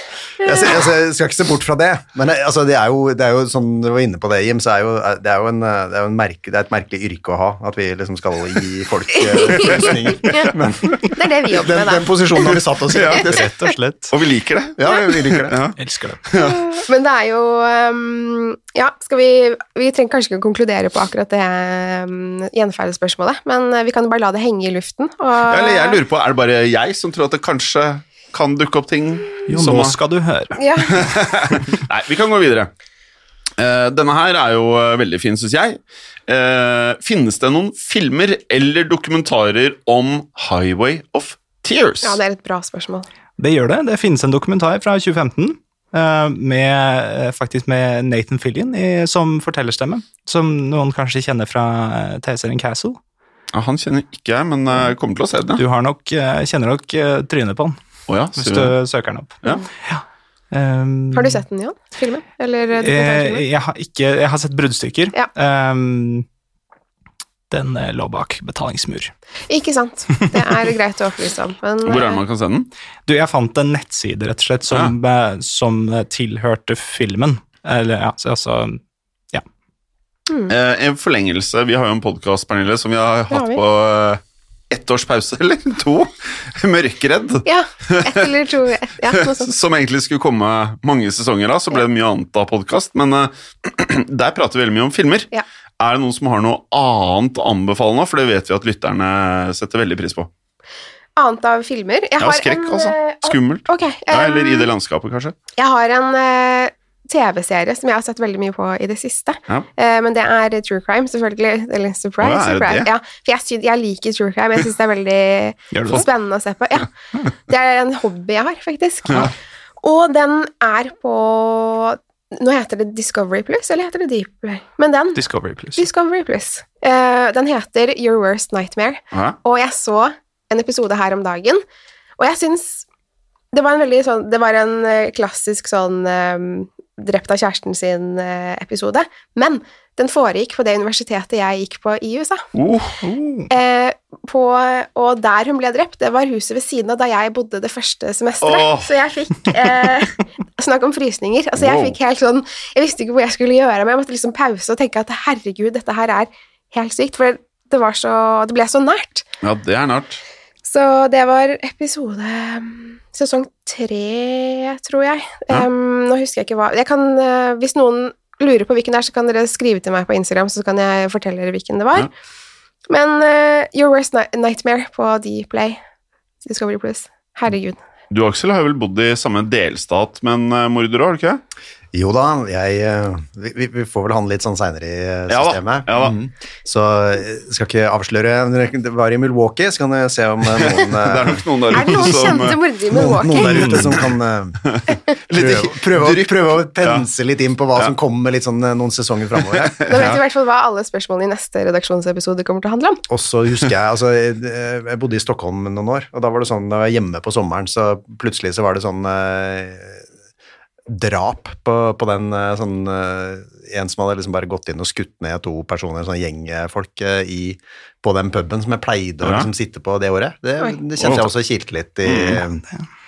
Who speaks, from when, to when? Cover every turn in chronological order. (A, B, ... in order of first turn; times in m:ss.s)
0:00.4-0:13.5 A
0:00.4-0:00.7 B
0:09.3-0:12.6 B
0:12.9-0:13.2 C
0:13.3-0:14.1 D
0:14.1-0:15.7 C
0:14.8-0:15.6 A
0:15.8-0:16.2 D
0:16.3-0:16.6 C
0:16.4-0:26.0 B
0:25.5-0:30.0 C
0:29.5-0:30.6 D
0:30.6-0:31.0 B
0:30.9-0:32.7 C
0:33.6-0:42.2 C
0:42.0-0:43.1 B
0:43.4-0:53.0 D
0:53.5-0:55.6 C
0:55.6-0:57.8 D
0:58.1-0:58.7 C
0:58.4-1:01.4 D
1:01.1-1:03.4 B
1:02.8-1:06.2 D
1:07.5-1:09.1 D
1:09.5-1:12.2 B
1:11.8-1:12.7 C
1:13.1-1:18.8 D
1:20.5-1:28.2 C
1:23.3-1:23.6 B
1:27.4-1:29.5 B
1:29.1-1:40.3 C
1:41.2-1:44.7 B
1:42.2-1:45.3 C
1:45.6-1:56.9 B
1:52.2-1:52.9 C
1:55.7-1:56.0 D
1:57.5-2:05.2 B
2:05.2-2:05.9 D
2:05.8-2:11.6 B
2:12.2-2:12.8 B
2:13.5-2:22.4 B
2:22.5-2:23.4 C
2:23.5-2:39.2 B
2:28.4-2:29.0 C
2:31.6-2:32.0 C
2:39.4-2:40.2 C
2:40.6-2:52.1 B
2:52.9-2:55.8 B
2:56.4-2:57.8 B
2:58.1-3:01.4 C
3:01.9-3:14.7 A
3:05.3-3:06.1 C
3:10.6-3:12.6 C
3:11.7-3:13.8 B
3:13.4-3:13.9 D
3:14.7-3:17.0 C
3:15.3-3:19.9 A
3:19.5-3:20.2 C
3:19.9-3:23.0 B
3:23.1-3:30.0 A
3:30.9-3:42.6 A
3:39.2-3:39.5 C
3:41.0-3:41.3 C
3:42.0-3:42.4 C